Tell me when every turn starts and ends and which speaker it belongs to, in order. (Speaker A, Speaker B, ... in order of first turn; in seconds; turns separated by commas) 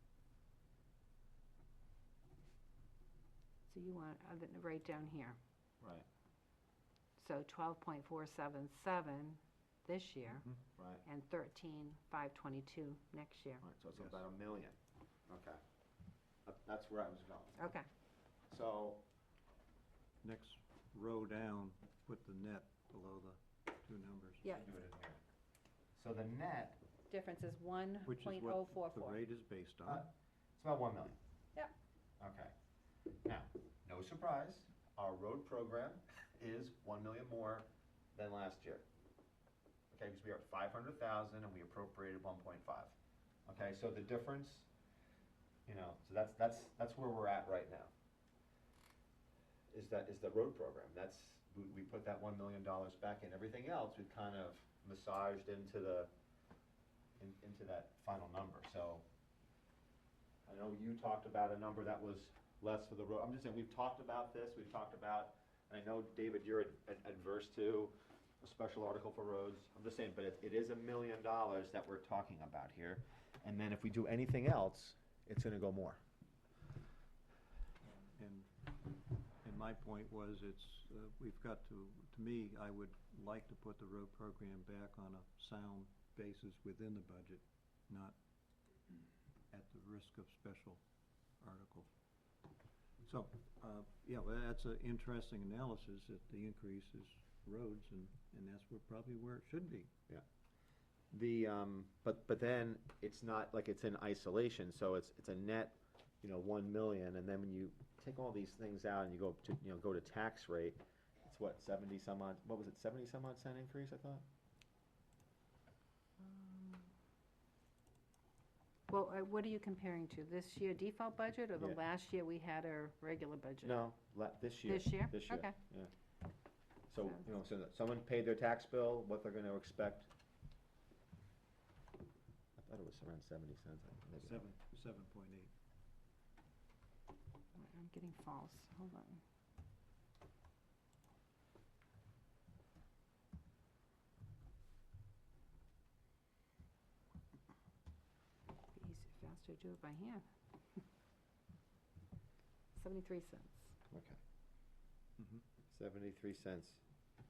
Speaker A: 3.7-5.4, Speaker B: 5.8-6.1, Speaker A: 7.2-10.5, Speaker B: 10.8-11.0, Speaker A: 11.0-13.6, Speaker B: 13.6-14.8, Speaker C: 14.0-14.2, Speaker B: 15.3-15.6, Speaker B: 16.5-17.7, Speaker A: 17.6-17.9, Speaker B: 18.5-19.0, Speaker C: 20.2-24.4, Speaker B: 24.4-25.2, Speaker B: 26.0-26.8, Speaker A: 27.1-29.2, Speaker C: 28.1-30.1, Speaker B: 29.9-31.2, Speaker B: 32.2-32.5, Speaker B: 33.2-38.9, Speaker B: 39.9-44.7, Speaker B: 45.7-47.9, Speaker B: 49.7-56.1, Speaker B: 57.2-59.0, Speaker B: 60.5-76.0, Speaker C: 77.9-78.7, Speaker C: 79.4-88.2, Speaker C: 89.5-90.8, Speaker C: 91.4-91.9, Speaker C: 93.0-99.9, Speaker B: 101.1-114.2, Speaker A: 116.2-116.9, Speaker A: 118.9-123.8, Speaker B: 123.6-125.9, Speaker A: 124.7-125.5, Speaker B: 126.9-130.1, Speaker B: 132.6-134.5, Speaker C: 134.2-135.5, Speaker A: 137.6-139.2, Speaker A: 148.7-150.8, Speaker A: 152.8-153.7, Speaker B: 153.9-154.2, Speaker B: 155.7-156.8